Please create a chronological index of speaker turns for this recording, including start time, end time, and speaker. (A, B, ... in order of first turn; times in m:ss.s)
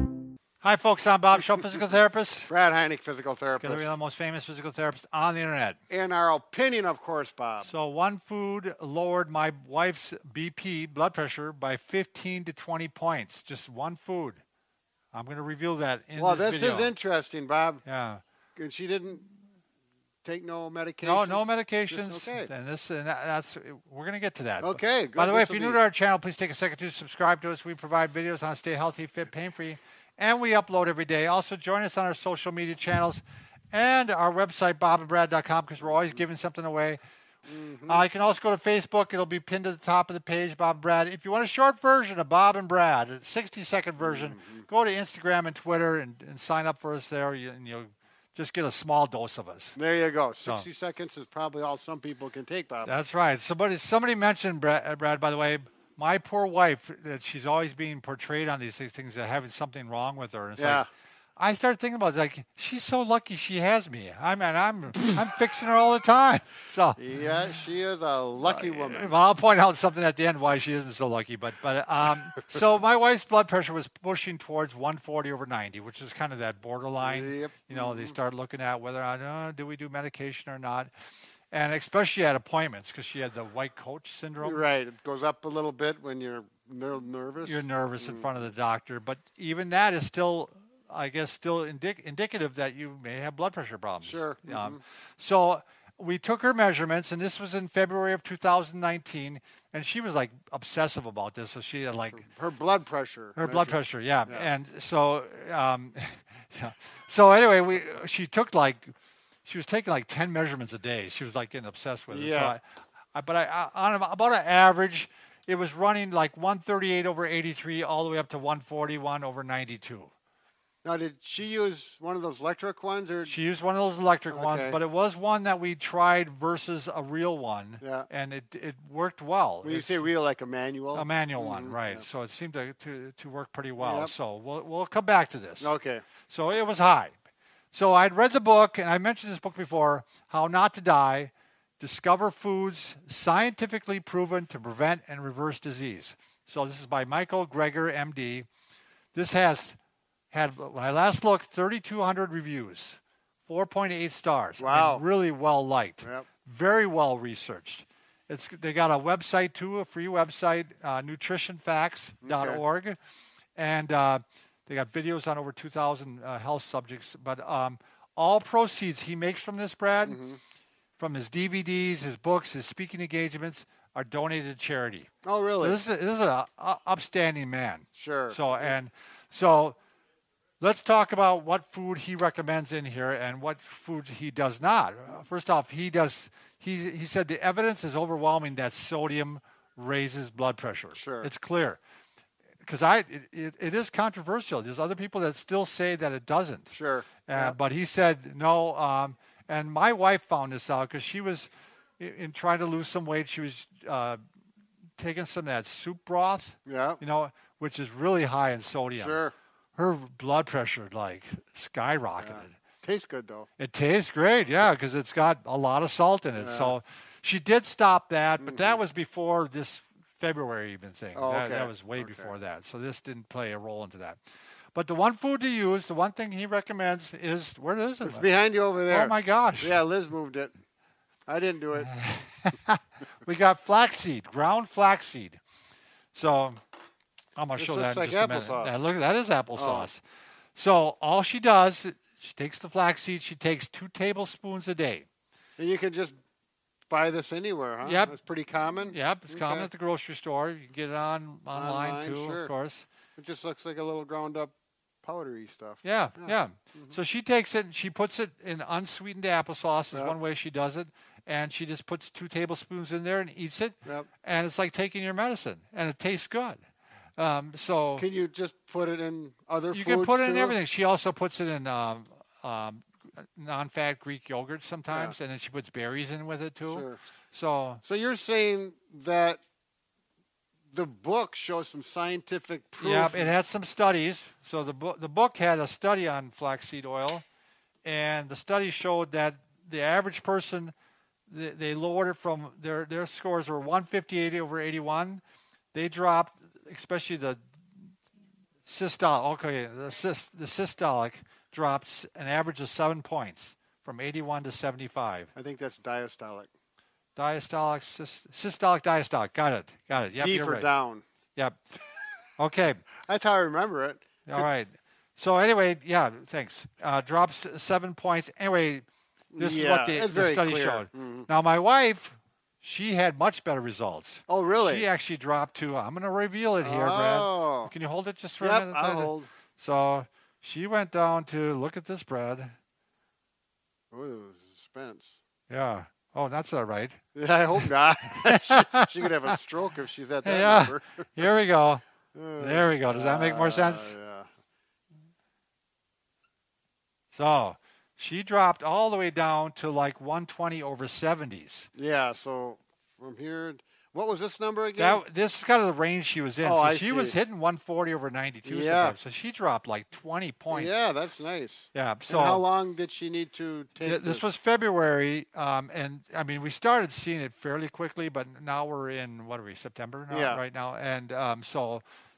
0:00.6-0:02.5 A
0:02.5-0:04.0 B
0:03.6-0:05.8 A
0:05.9-0:07.7 B
0:07.6-0:14.4 A
0:15.1-0:16.9 A
0:16.2-0:17.8 B
0:17.8-0:18.2 A
0:18.6-0:19.3 B
0:20.2-0:22.5 B
0:21.0-0:37.0 A
0:24.6-0:25.8 B
0:37.5-0:38.1 B
0:37.9-0:49.8 A
0:44.0-0:44.7 B
0:49.8-0:53.0 B
0:52.8-1:00.9 A
1:00.6-1:00.9 B
1:01.4-1:07.0 A
1:07.0-1:09.2 B
1:08.4-1:20.9 A
1:17.0-1:18.2 B
1:21.5-1:24.6 A
1:24.4-1:28.3 B
1:27.4-1:42.3 A
1:34.0-1:34.8 B
1:42.1-1:44.5 B
1:43.4-1:48.9 A
1:49.4-1:52.6 A
1:52.1-1:52.6 B
1:53.1-2:00.1 A
2:00.8-2:03.4 B
2:03.3-2:10.1 A
2:04.3-2:04.8 B
2:07.8-2:08.1 B
2:09.6-2:12.0 B
2:10.9-2:15.7 A
2:13.8-2:14.1 B
2:15.6-2:16.1 B
2:16.3-2:17.2 A
2:17.7-2:28.5 A
2:29.1-2:29.8 A
2:30.3-2:43.0 A
2:34.6-2:35.0 B
2:36.0-2:36.3 B
2:42.2-2:42.6 B
2:43.6-2:50.2 A
2:50.0-2:50.4 B
2:51.0-2:55.1 A
2:55.2-2:55.8 B
2:55.6-2:59.8 A
2:58.0-2:58.8 B
3:00.6-3:11.8 A
3:11.0-3:11.3 B
3:12.6-3:16.7 A
3:16.7-3:17.6 B
3:17.3-3:24.2 A
3:25.0-3:29.2 A
3:26.7-3:27.0 B
3:29.0-3:29.3 B
3:29.8-3:32.6 A
3:32.2-3:33.5 B
3:33.6-3:44.2 A
3:36.3-3:36.8 B
3:38.4-3:38.8 B
3:41.1-3:42.3 B
3:44.7-3:48.3 A
3:48.0-3:50.6 B
3:48.9-3:49.8 A
3:51.3-3:51.9 B
3:51.8-3:55.4 A
3:56.1-3:56.6 A
3:57.4-4:00.0 A
3:57.6-3:58.8 B
3:59.5-3:59.9 B
4:00.6-4:05.1 A
4:05.6-4:06.2 B
4:06.9-4:09.7 B
4:07.8-4:08.2 A
4:08.9-4:12.9 A
4:11.5-4:12.5 B
4:13.2-4:17.0 B
4:15.8-4:26.6 A
4:19.9-4:20.2 B
4:27.2-4:28.1 A
4:28.0-4:30.6 B
4:29.7-4:37.8 A
4:34.9-4:35.2 B
4:36.7-4:37.0 B
4:37.8-4:39.4 B
4:40.7-4:43.4 B
4:42.8-4:47.2 A
4:47.8-4:50.7 A
4:51.3-4:55.2 A
4:55.7-4:57.4 A
4:58.7-5:05.3 A
5:05.4-5:06.5 B
5:07.2-5:10.7 A
5:10.2-5:11.0 B
5:12.4-5:12.8 A
5:13.0-5:14.5 B
5:14.3-5:18.8 A
5:19.3-5:21.3 B
5:19.4-5:32.6 A
5:24.3-5:24.9 B
5:26.6-5:27.7 B
5:28.4-5:29.3 B
5:33.9-5:35.2 B
5:35.5-5:37.0 A
5:37.2-5:41.3 B
5:37.6-5:39.4 A
5:40.2-5:41.8 A
5:42.1-5:44.3 B
5:42.4-5:44.0 A
5:47.1-5:51.7 A
5:51.8-5:55.0 B
5:54.8-6:00.8 A
5:56.4-5:57.2 B
5:58.4-5:59.0 B
6:00.5-6:04.3 B
6:01.7-6:02.4 A
6:03.8-6:11.8 A
6:10.1-6:10.4 B